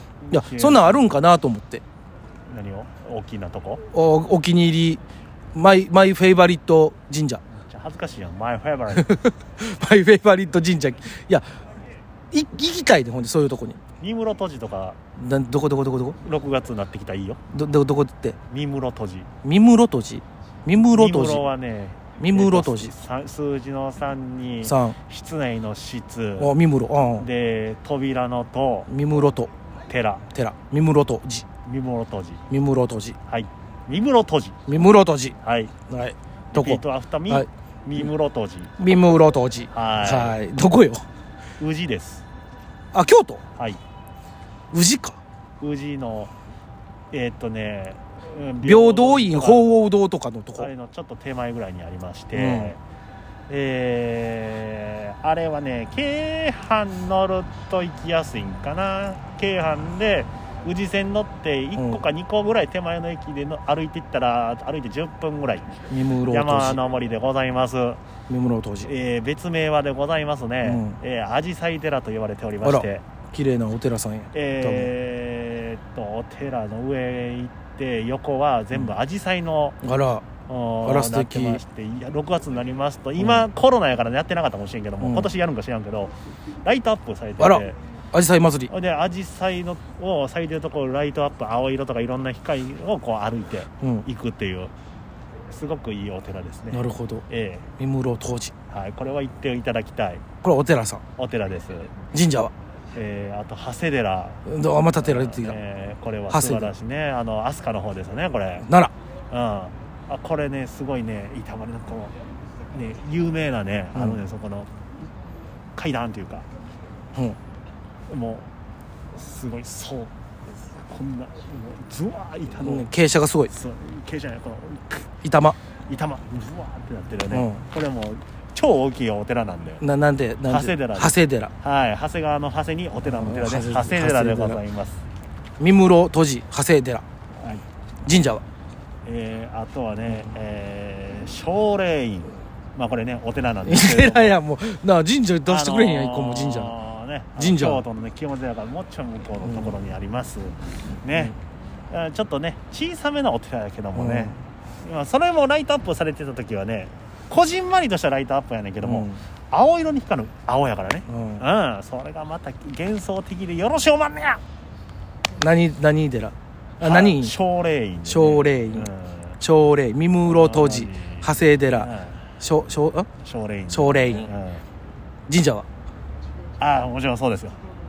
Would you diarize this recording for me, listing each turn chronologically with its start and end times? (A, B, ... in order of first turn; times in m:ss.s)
0:00.2-0:01.0 A
0:00.3-0:01.8 B
0:02.5-0:03.8 A
0:03.9-0:05.0 B
0:05.5-0:07.4 B
0:07.5-0:09.2 A
0:09.0-0:11.4 B
0:12.3-0:13.8 B
0:14.0-0:15.0 A
0:15.2-0:16.2 B
0:16.2-0:17.4 A
0:17.5-0:18.4 B
0:18.5-0:19.3 A
0:19.4-0:21.4 B
0:20.9-0:26.5 A
0:22.2-0:22.9 B
0:24.6-0:25.0 B
0:26.4-0:27.3 B
0:27.2-0:28.9 A
0:28.9-0:29.5 B
0:29.9-0:30.2 A
0:30.3-0:31.4 B
0:31.6-0:32.4 A
0:32.5-0:33.2 B
0:33.3-0:34.6 A
0:34.7-0:35.4 B
0:35.4-0:35.7 A
0:35.9-0:37.5 B
0:36.5-0:38.8 A
0:38.8-0:41.0 B
0:39.7-0:40.4 A
0:41.6-0:42.2 A
0:42.9-0:43.4 B
0:44.7-0:45.2 B
0:45.6-0:46.3 A
0:47.1-0:49.8 A
0:48.6-0:50.7 B
0:50.6-0:52.8 A
0:52.3-0:52.7 B
0:53.5-1:05.7 A
1:01.8-1:02.0 B
1:05.9-1:06.8 B
1:06.3-1:08.0 A
1:08.3-1:08.9 B
1:08.8-1:13.0 A
1:10.6-1:11.0 B
1:12.6-1:14.9 B
1:14.3-1:19.8 A
1:19.8-1:20.2 B
1:20.5-1:27.8 A
1:20.8-1:21.6 B
1:23.2-1:23.4 B
1:25.0-1:25.3 B
1:27.4-1:28.7 B
1:28.7-1:34.7 A
1:35.5-1:37.7 A
1:36.7-1:37.2 B
1:37.8-1:38.5 B
1:38.7-1:40.2 A
1:40.4-1:41.0 B
1:41.2-1:41.9 A
1:42.1-1:42.5 B
1:42.9-1:48.7 A
1:44.5-1:45.6 B
1:46.3-1:46.7 B
1:48.6-1:48.9 B
1:49.3-1:52.1 A
1:52.7-1:54.7 A
1:53.9-1:54.2 B
1:55.8-1:56.4 A
1:58.1-1:58.5 A
1:59.1-2:02.9 A
2:02.6-2:03.5 B
2:03.5-2:05.1 A
2:05.2-2:05.6 B
2:05.9-2:09.8 A
2:07.3-2:07.6 B
2:09.8-2:11.5 B
2:10.5-2:15.0 A
2:13.0-2:14.6 B
2:15.6-2:17.0 B
2:17.4-2:17.6 A
2:18.0-2:18.4 B
2:19.0-2:24.4 A
2:23.6-2:26.7 B
2:25.4-2:31.4 A
2:27.4-2:27.8 B
2:29.4-2:29.7 B
2:31.9-2:44.4 A
2:34.0-2:34.4 B
2:38.8-2:39.2 B
2:41.1-2:41.4 B
2:45.4-2:47.3 B
2:46.8-2:49.4 A
2:48.1-2:53.1 B
2:50.2-2:52.3 A
2:53.2-2:54.6 A
2:53.7-2:54.3 B
2:55.3-2:55.6 B
2:56.6-2:57.6 A